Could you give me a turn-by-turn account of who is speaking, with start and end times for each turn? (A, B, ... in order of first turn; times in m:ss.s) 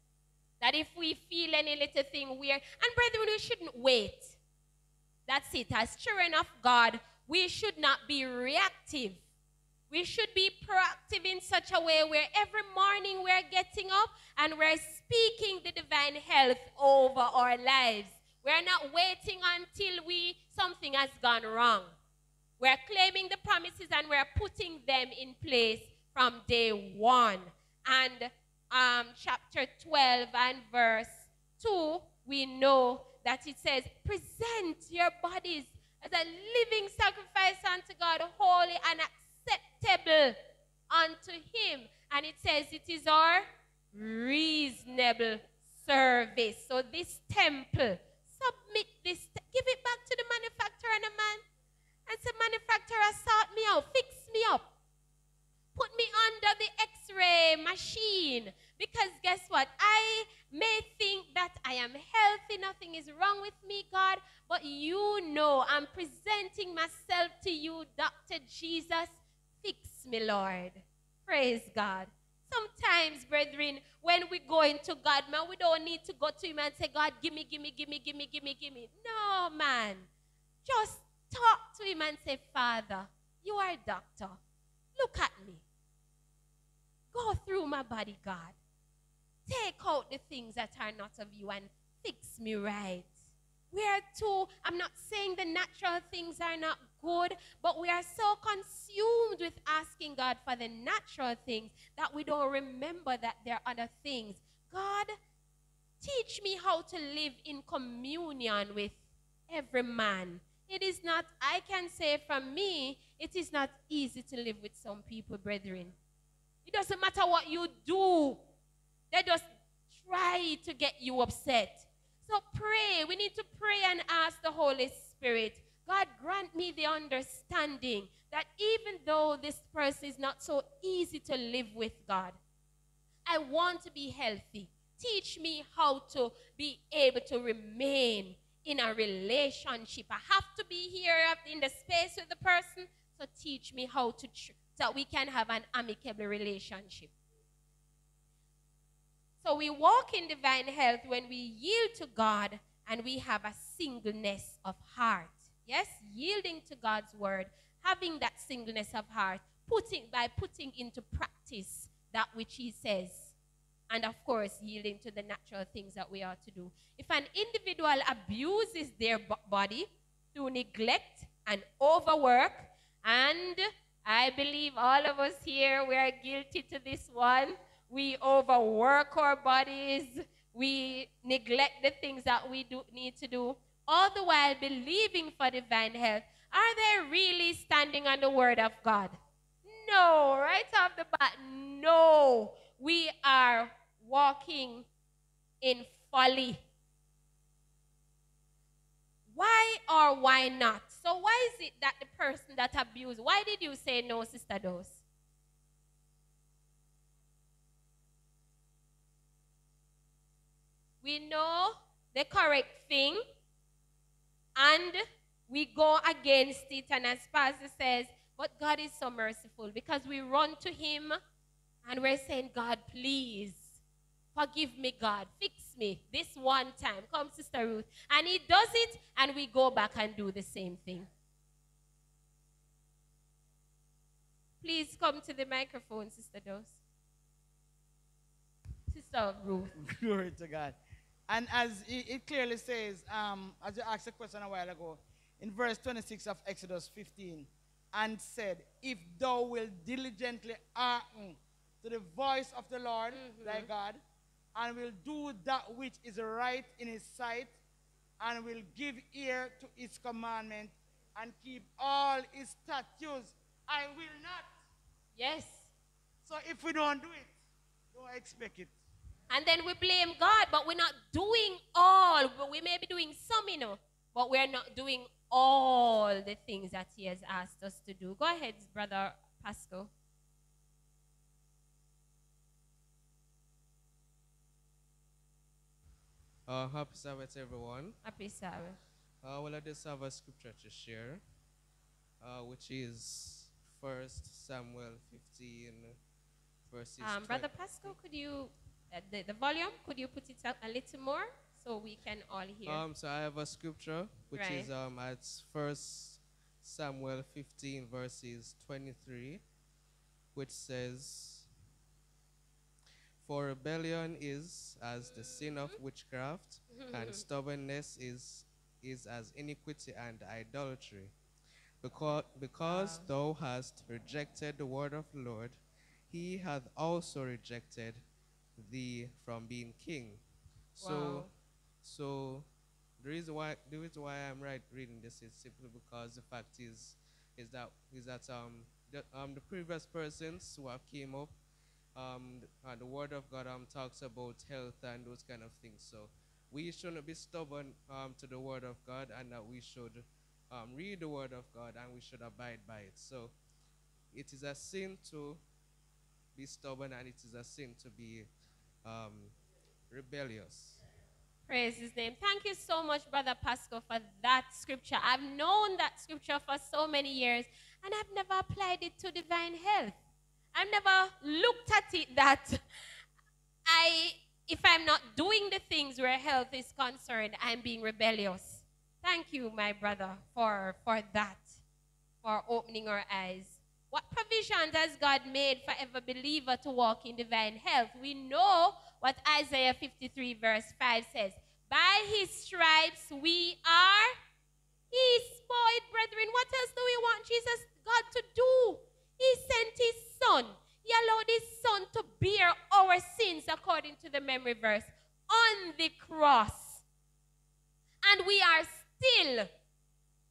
0:00.6-0:04.4 A
0:05.3-0:09.2 A
0:09.9-0:21.9 A
0:22.6-0:40.4 A
0:40.9-0:51.4 A
0:52.1-0:54.6 A
0:55.7-1:20.1 A
1:20.6-1:24.4 A
1:25.0-1:25.6 A
1:27.1-1:28.6 A
1:29.5-1:33.1 A
1:33.7-1:45.1 A
1:46.0-1:55.9 A
1:56.6-1:58.4 A
1:59.1-2:12.4 A
2:13.3-2:27.1 A
2:29.4-2:43.3 A
2:43.9-3:14.9 A
3:15.6-3:16.6 A
3:19.3-3:25.0 A
3:31.0-3:33.2 A
3:34.6-3:41.2 A
3:41.8-3:43.8 A
3:44.3-3:51.1 A
3:54.6-3:56.8 A
3:58.9-3:59.7 A
3:59.8-4:00.8 B
4:01.3-4:14.0 B
4:13.1-4:13.7 A
4:14.5-4:17.5 B
4:18.2-4:24.5 B
4:25.2-4:25.7 A
4:26.2-4:27.3 B
4:27.9-4:28.7 B
4:29.3-4:39.9 A
4:46.5-4:48.0 C
4:48.0-4:48.8 A
4:49.2-4:51.2 C
4:52.2-4:56.0 C
4:56.7-4:58.0 C
4:57.0-5:02.8 A
5:02.6-5:09.4 C
5:04.3-5:04.7 A
5:10.3-5:11.5 C
5:13.2-5:21.1 C
5:15.1-5:15.8 A
5:16.7-5:17.2 A
5:21.8-5:25.6 C
5:22.6-5:23.1 A
5:26.1-5:28.0 C
5:28.6-5:30.2 C
5:30.8-5:31.3 C
5:30.8-5:31.3 A
5:31.8-5:32.5 C
5:33.0-5:41.3 C
5:41.9-5:53.3 C
5:54.1-5:55.4 C
5:56.3-5:58.3 C
5:58.8-5:59.3 C
5:59.9-6:00.8 C
6:01.5-6:10.0 A
6:10.5-6:12.6 A
6:13.7-6:21.6 A
6:22.2-6:34.1 A
6:34.9-6:46.8 A
6:48.0-6:49.5 A